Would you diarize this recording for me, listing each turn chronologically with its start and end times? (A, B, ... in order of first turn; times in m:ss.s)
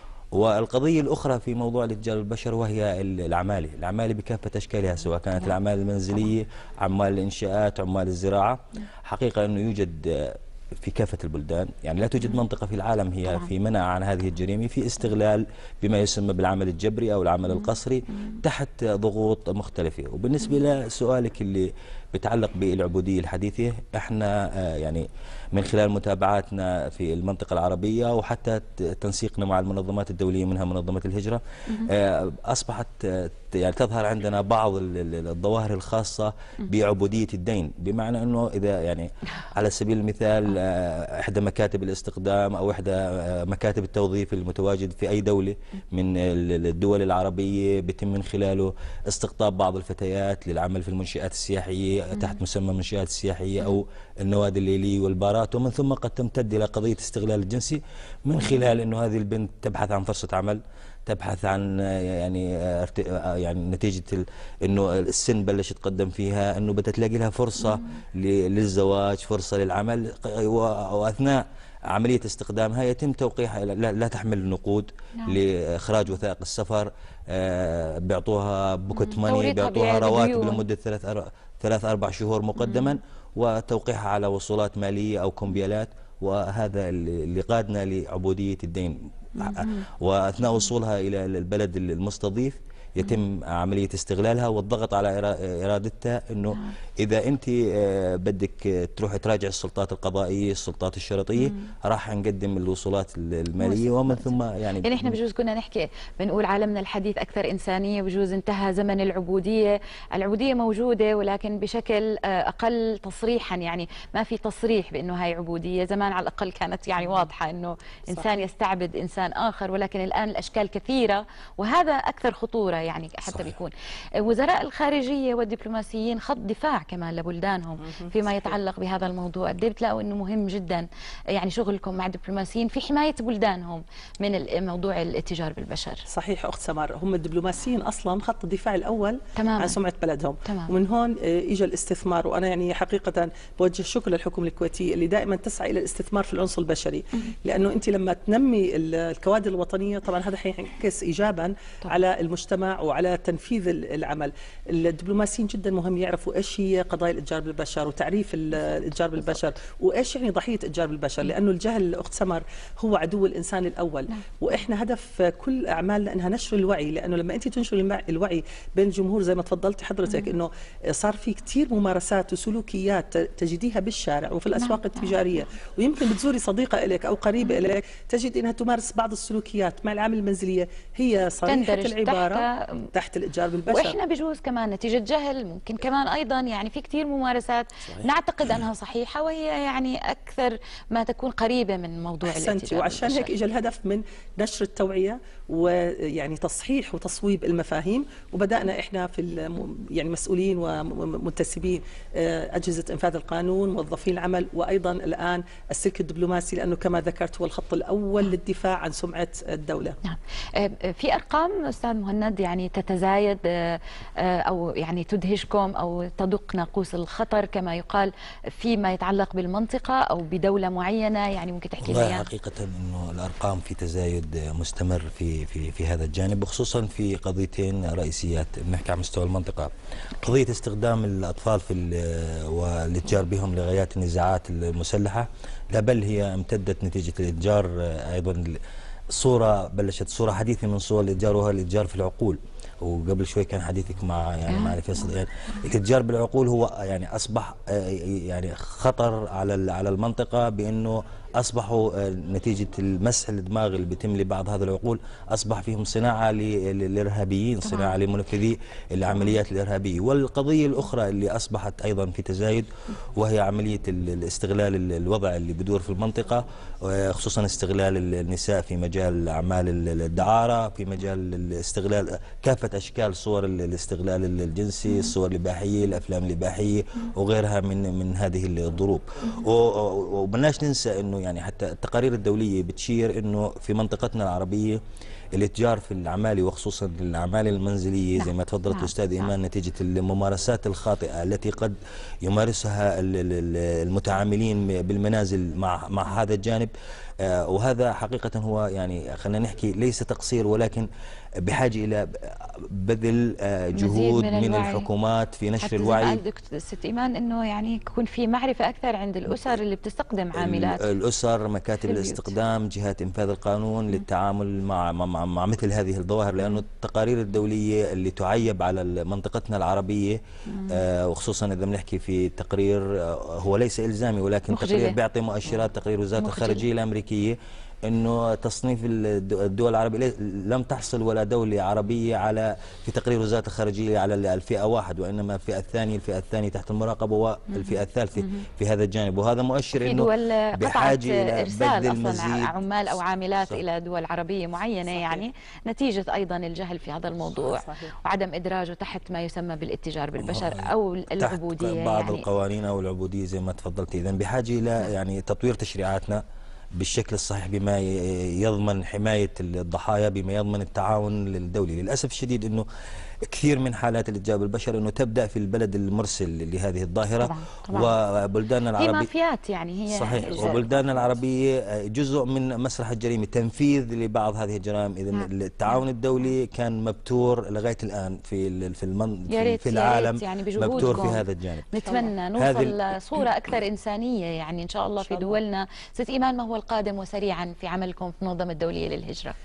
0:00.3-1:45.2 A
0:13.3-0:13.5 B
0:17.5-0:17.8 B
0:52.1-0:52.4 B
1:07.6-1:08.0 B
1:18.9-1:20.6 B
1:22.6-1:23.0 B
1:29.4-1:29.8 B
1:41.4-1:41.6 B
1:43.6-2:16.0 B
1:58.1-1:58.4 C
2:03.2-2:03.5 A
2:08.0-2:08.5 C
2:16.1-3:04.0 C
2:19.4-2:19.8 B
2:20.4-2:20.7 B
2:38.5-2:39.4 B
2:50.1-2:50.3 B
2:54.6-2:55.2 B
3:01.5-3:02.9 B
3:03.7-3:13.3 B
3:12.2-3:30.0 C
3:30.0-3:42.3 B
3:41.8-3:58.6 A
3:59.1-4:44.8 A
4:04.5-4:05.2 B
4:17.6-4:18.0 B
4:34.9-4:35.2 B
4:45.3-5:00.9 A
4:48.2-4:49.3 B
5:01.4-5:06.2 A
5:03.8-5:04.9 B
5:05.6-5:10.9 B
5:10.4-5:42.5 A
5:11.8-5:12.3 B
5:20.5-5:20.8 B
5:24.5-5:25.0 B
5:26.2-5:26.6 B
5:37.5-5:38.5 B
5:39.7-5:52.2 B
5:44.9-5:45.2 C
5:47.4-5:47.9 C
5:50.2-5:56.2 A
5:56.8-6:02.7 A
6:03.2-6:09.1 A
6:07.2-6:07.9 B
6:08.8-6:10.8 B
6:09.9-6:21.8 A
6:10.2-6:11.1 C
6:15.1-6:15.8 B
6:19.3-6:29.4 B
6:21.8-6:22.1 C
6:22.4-6:22.8 A
6:25.0-6:25.4 C